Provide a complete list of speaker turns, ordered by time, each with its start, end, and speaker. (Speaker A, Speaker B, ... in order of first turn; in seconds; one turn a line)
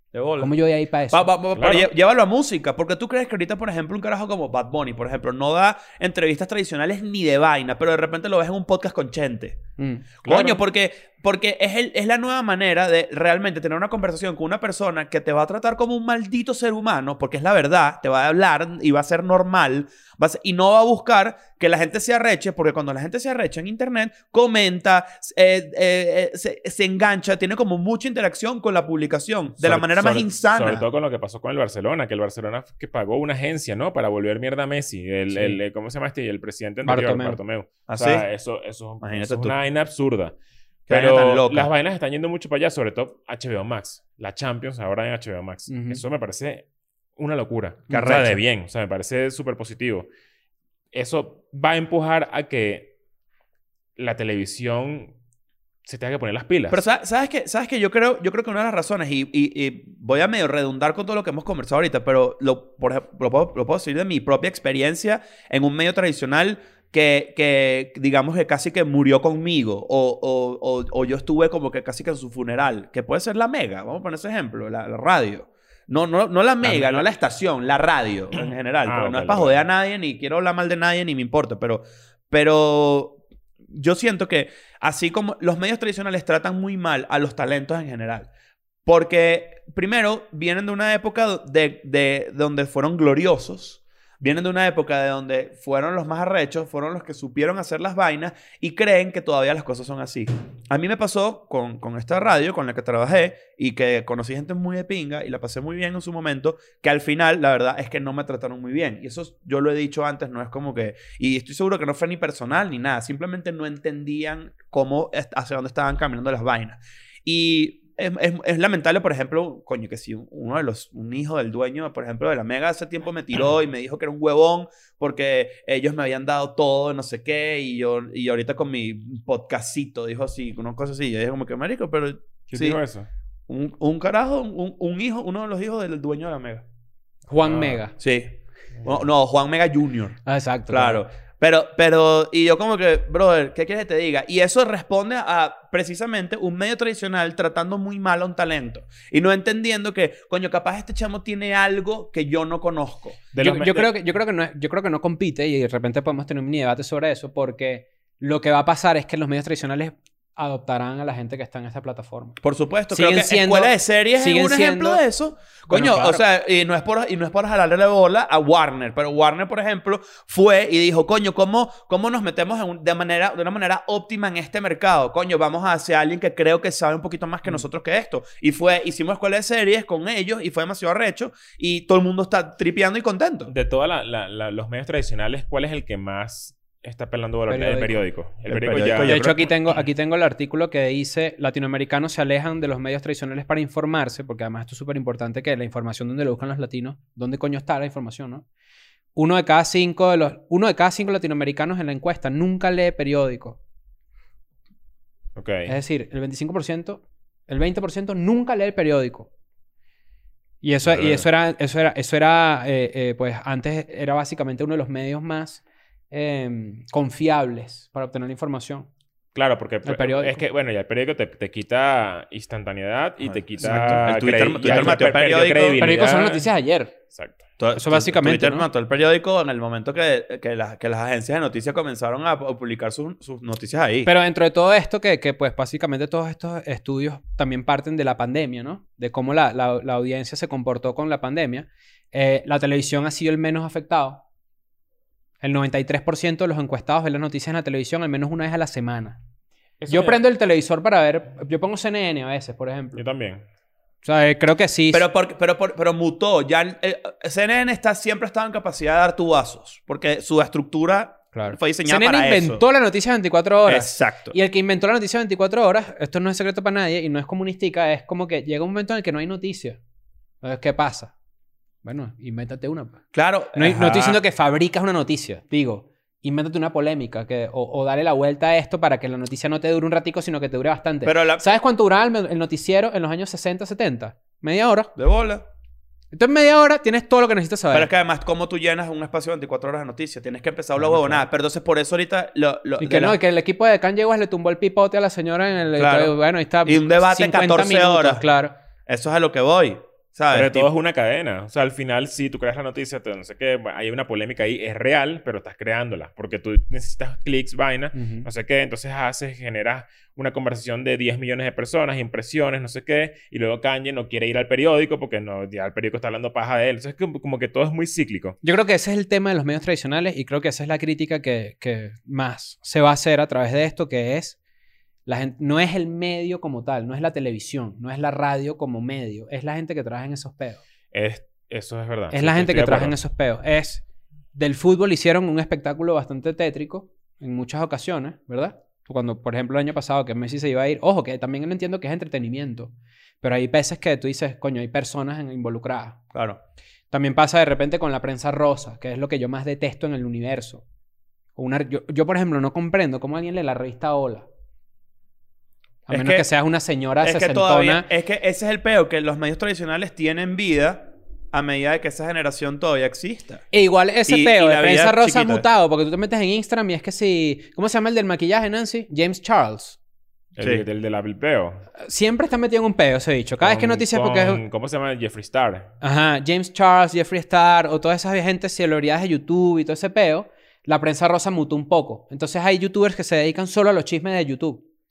Speaker A: 0.1-0.5
Speaker B: 0.4-1.3
Speaker A: 1.1-9.6
Speaker C: 1.6-1.9
Speaker B: 9.8-10.1
Speaker A: 10.2-30.8
Speaker C: 10.2-10.6
Speaker C: 29.6-40.3
Speaker B: 35.3-35.6
Speaker B: 36.8-37.4
Speaker A: 37.9-38.2
Speaker A: 39.0-39.5
Speaker C: 40.9-46.6
Speaker A: 40.9-41.7
Speaker B: 45.7-46.0
Speaker C: 47.2-50.1
Speaker A: 47.9-48.4
Speaker C: 50.9-52.9
Speaker C: 54.0-55.1
Speaker C: 55.8-56.8
Speaker A: 56.7-88.3
Speaker C: 76.6-77.0
Speaker C: 78.4-79.6
Speaker A: 88.8-132.8
Speaker C: 132.5-133.1
Speaker A: 133.5-136.6
Speaker B: 137.3-137.9
Speaker C: 137.4-137.8
Speaker A: 138.0-138.3
Speaker A: 138.8-153.3
Speaker B: 140.2-141.0
Speaker C: 153.3-153.9
Speaker B: 153.4-162.4
Speaker A: 162.4-183.5
Speaker B: 162.9-165.0
Speaker B: 165.7-166.2
Speaker C: 165.7-166.2
Speaker C: 183.5-189.2
Speaker B: 187.5-188.0
Speaker A: 188.5-189.5
Speaker B: 189.0-198.4
Speaker B: 199.1-203.6
Speaker C: 205.3-205.7
Speaker B: 205.7-209.3
Speaker B: 210.6-218.9
Speaker C: 210.9-211.2
Speaker C: 219.3-226.5
Speaker B: 219.8-220.4
Speaker A: 223.2-225.9
Speaker B: 223.6-225.0
Speaker B: 225.8-226.9
Speaker A: 227.6-234.1
Speaker B: 227.7-228.7
Speaker B: 234.0-244.2
Speaker B: 245.4-249.2
Speaker C: 249.8-250.2
Speaker B: 249.9-253.0
Speaker C: 252.9-253.4
Speaker B: 254.0-255.1
Speaker A: 254.9-262.6
Speaker B: 261.3-269.8
Speaker A: 263.6-264.4
Speaker B: 270.4-271.1
Speaker B: 271.8-273.0
Speaker A: 273.1-274.2
Speaker B: 273.5-284.9
Speaker A: 281.0-281.5
Speaker A: 284.9-285.4
Speaker B: 286.1-287.9
Speaker A: 287.7-293.2
Speaker C: 290.8-291.2
Speaker B: 292.8-298.5
Speaker A: 295.7-298.2
Speaker A: 298.9-300.7
Speaker C: 300.3-318.4
Speaker B: 307.9-308.3
Speaker B: 318.4-324.4
Speaker B: 325.1-330.6
Speaker C: 330.9-332.9
Speaker B: 332.1-333.8
Speaker B: 334.3-346.0
Speaker A: 346.1-346.4
Speaker B: 346.9-350.6
Speaker B: 351.4-354.3
Speaker B: 355.9-357.9
Speaker A: 355.9-356.3
Speaker A: 357.0-363.4
Speaker B: 363.5-369.8
Speaker A: 364.1-365.4
Speaker C: 370.4-371.6
Speaker A: 370.4-370.6
Speaker B: 371.8-374.4
Speaker C: 373.4-375.7
Speaker B: 375.8-384.6